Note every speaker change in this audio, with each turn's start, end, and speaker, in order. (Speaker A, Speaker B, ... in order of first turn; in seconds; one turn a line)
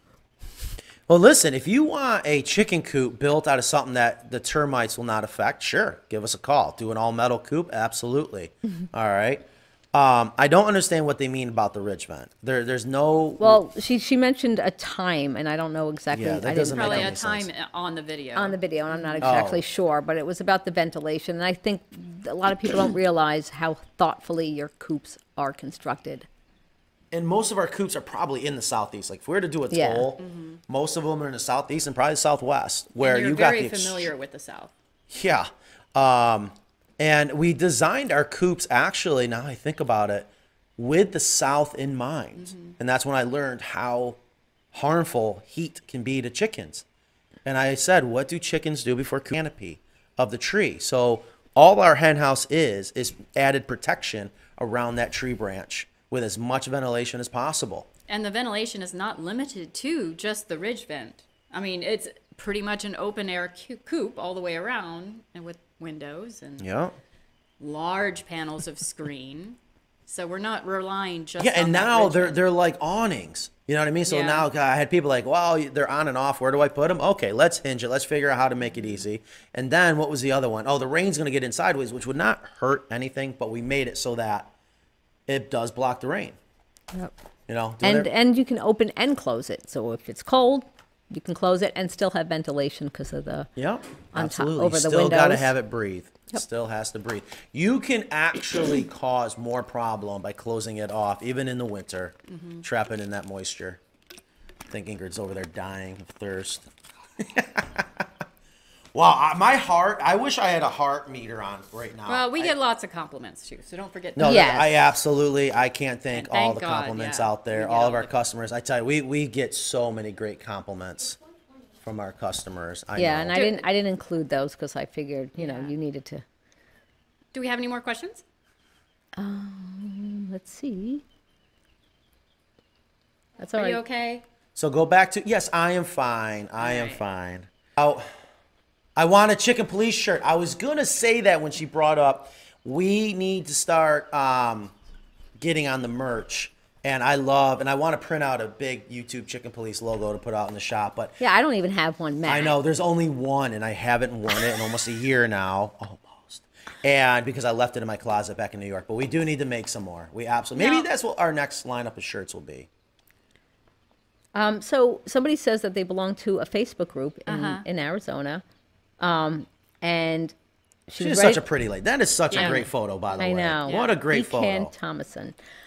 Speaker A: 1.1-13.6
Speaker B: 13.4-17.1
Speaker A: 16.1-17.5
Speaker C: 16.7-19.1
Speaker B: 18.4-26.3
Speaker A: 19.2-19.6
Speaker A: 27.1-34.1
Speaker B: 29.7-30.1
Speaker C: 30.2-30.6
Speaker C: 33.0-34.7
Speaker A: 35.1-44.2
Speaker C: 42.4-42.7
Speaker A: 44.7-46.8
Speaker A: 47.5-57.9
Speaker C: 58.1-66.7
Speaker A: 66.6-66.9
Speaker C: 67.6-72.4
Speaker A: 71.4-84.5
Speaker C: 74.1-74.5
Speaker A: 85.3-86.4
Speaker A: 87.5-88.1
Speaker B: 87.8-93.5
Speaker A: 93.6-103.8
Speaker B: 94.1-95.5
Speaker C: 102.3-102.6
Speaker A: 104.7-106.7
Speaker A: 107.2-108.0
Speaker A: 109.0-112.5
Speaker C: 112.1-114.4
Speaker A: 114.2-121.2
Speaker B: 114.2-114.8
Speaker C: 116.1-118.1
Speaker A: 121.8-123.4
Speaker B: 123.0-126.2
Speaker C: 123.3-123.7
Speaker C: 125.4-125.7
Speaker C: 127.3-128.2
Speaker B: 129.2-131.0
Speaker B: 133.4-133.8
Speaker C: 133.5-134.2
Speaker A: 134.6-138.1
Speaker C: 136.6-137.0
Speaker A: 139.0-144.7
Speaker A: 145.4-151.2
Speaker B: 151.2-152.6
Speaker A: 152.3-162.7
Speaker C: 160.6-160.9
Speaker B: 164.3-168.4
Speaker C: 167.3-167.7
Speaker B: 169.0-170.3
Speaker B: 170.9-171.4
Speaker A: 171.0-174.7
Speaker C: 172.3-172.6
Speaker B: 172.3-175.3
Speaker C: 173.7-174.0